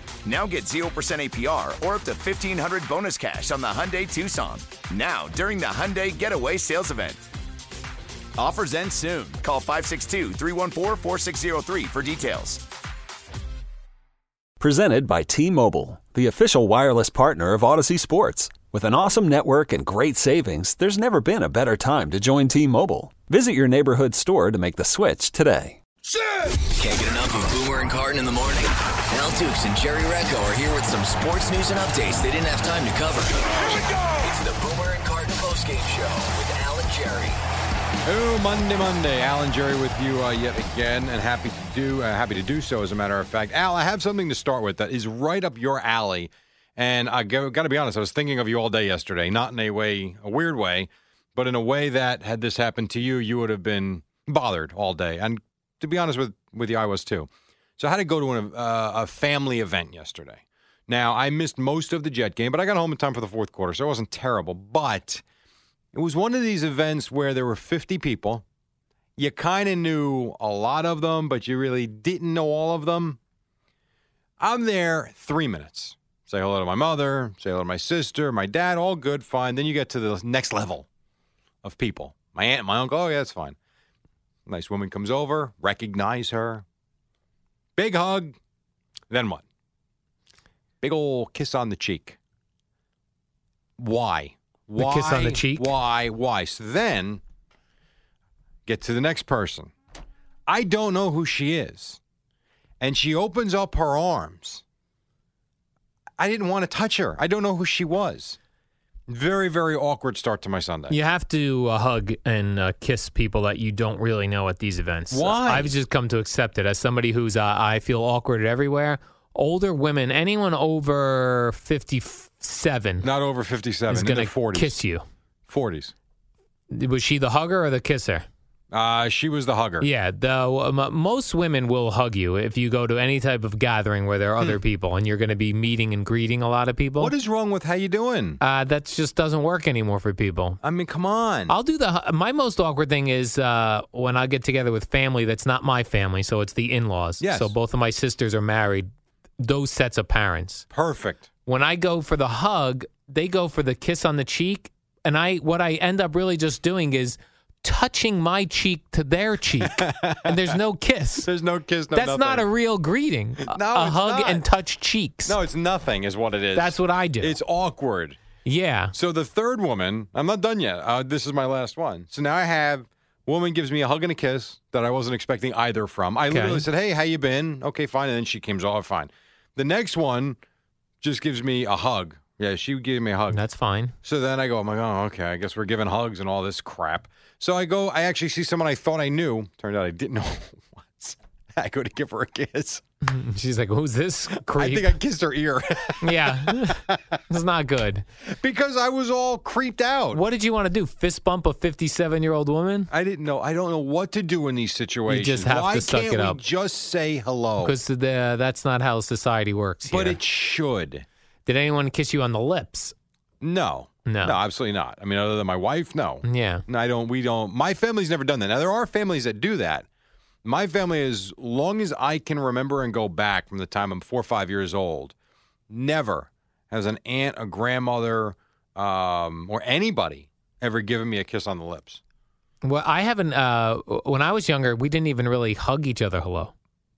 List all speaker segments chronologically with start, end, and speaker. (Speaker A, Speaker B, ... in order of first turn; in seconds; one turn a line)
Speaker A: 0.2-7.2
Speaker A: 8.4-12.6
Speaker B: 14.6-25.8
Speaker C: 26.7-37.4
Speaker D: 38.0-65.2
Speaker D: 65.9-68.4
Speaker D: 69.2-73.2
Speaker D: 74.4-80.9
Speaker D: 81.6-83.6
Speaker D: 84.5-86.6
Speaker D: 87.8-88.4
Speaker D: 89.1-89.4
Speaker D: 90.8-92.2
Speaker D: 93.8-97.2
Speaker E: 94.8-95.7
Speaker D: 98.7-99.7
Speaker D: 100.5-102.0
Speaker D: 102.8-104.6
Speaker D: 106.2-108.4
Speaker D: 109.1-111.0
Speaker E: 110.9-123.1
Speaker D: 115.1-115.7
Speaker D: 123.0-124.8
Speaker E: 123.9-125.0
Speaker D: 125.5-125.9
Speaker E: 126.7-128.2
Speaker D: 128.7-129.9
Speaker E: 129.8-137.1
Speaker D: 137.0-138.4
Speaker E: 138.4-140.6
Speaker D: 140.6-141.5
Speaker E: 141.5-148.9
Speaker D: 147.2-147.5
Speaker E: 149.4-150.7
Speaker D: 150.7-151.3
Speaker E: 151.4-161.3
Speaker D: 159.6-160.6
Speaker D: 161.2-162.5
Speaker E: 161.9-165.4
Speaker D: 163.4-164.5
Speaker D: 165.2-168.2
Speaker E: 166.5-167.4
Speaker E: 168.4-168.9
Speaker D: 168.9-180.4
Speaker E: 176.3-176.7
Speaker D: 181.0-183.4
Speaker E: 183.3-183.9
Speaker D: 184.0-192.8
Speaker E: 193.0-194.9
Speaker D: 194.4-197.2
Speaker E: 196.0-198.1
Speaker D: 198.2-200.2
Speaker E: 200.1-202.9
Speaker D: 202.9-207.7
Speaker E: 205.1-206.4
Speaker E: 207.6-210.2
Speaker D: 209.9-211.1
Speaker E: 211.4-212.9
Speaker D: 213.4-219.9
Speaker E: 214.1-214.4
Speaker E: 216.2-216.6
Speaker D: 220.4-225.1
Speaker D: 225.7-232.0
Speaker E: 232.6-236.5